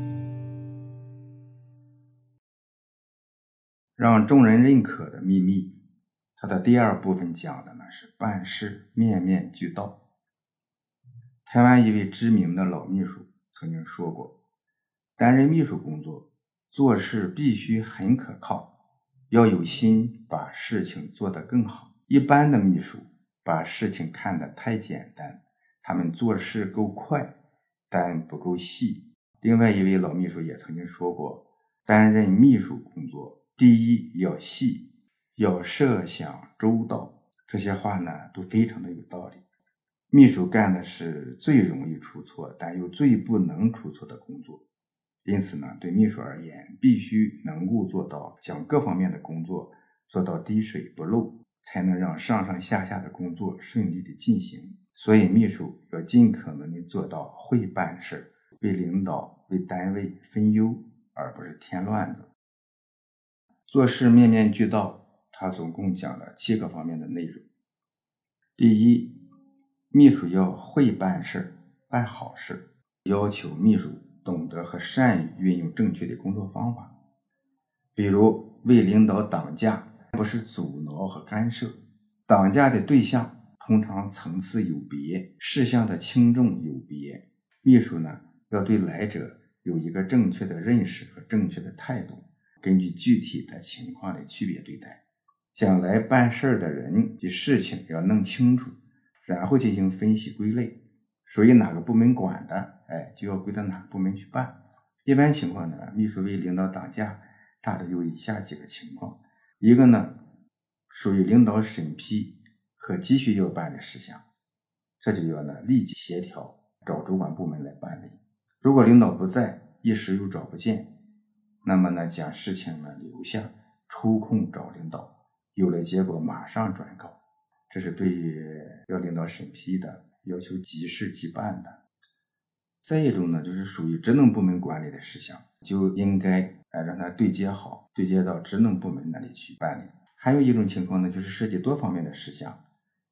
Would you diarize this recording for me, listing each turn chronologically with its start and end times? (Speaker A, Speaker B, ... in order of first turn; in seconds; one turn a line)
Speaker A: 4.0-5.8
Speaker A: 6.4-10.0
Speaker A: 11.4-14.3
Speaker A: 15.2-18.7
Speaker A: 19.3-27.3
Speaker A: 27.9-39.4
Speaker A: 40.1-44.6
Speaker A: 45.2-62.3
Speaker A: 63.7-67.5
Speaker A: 68.6-69.2
Speaker A: 69.9-76.9
Speaker A: 77.9-95.0
Speaker A: 95.5-110.2
Speaker A: 110.9-114.2
Speaker A: 115.0-121.0
Speaker A: 121.6-131.8
Speaker A: 132.8-142.6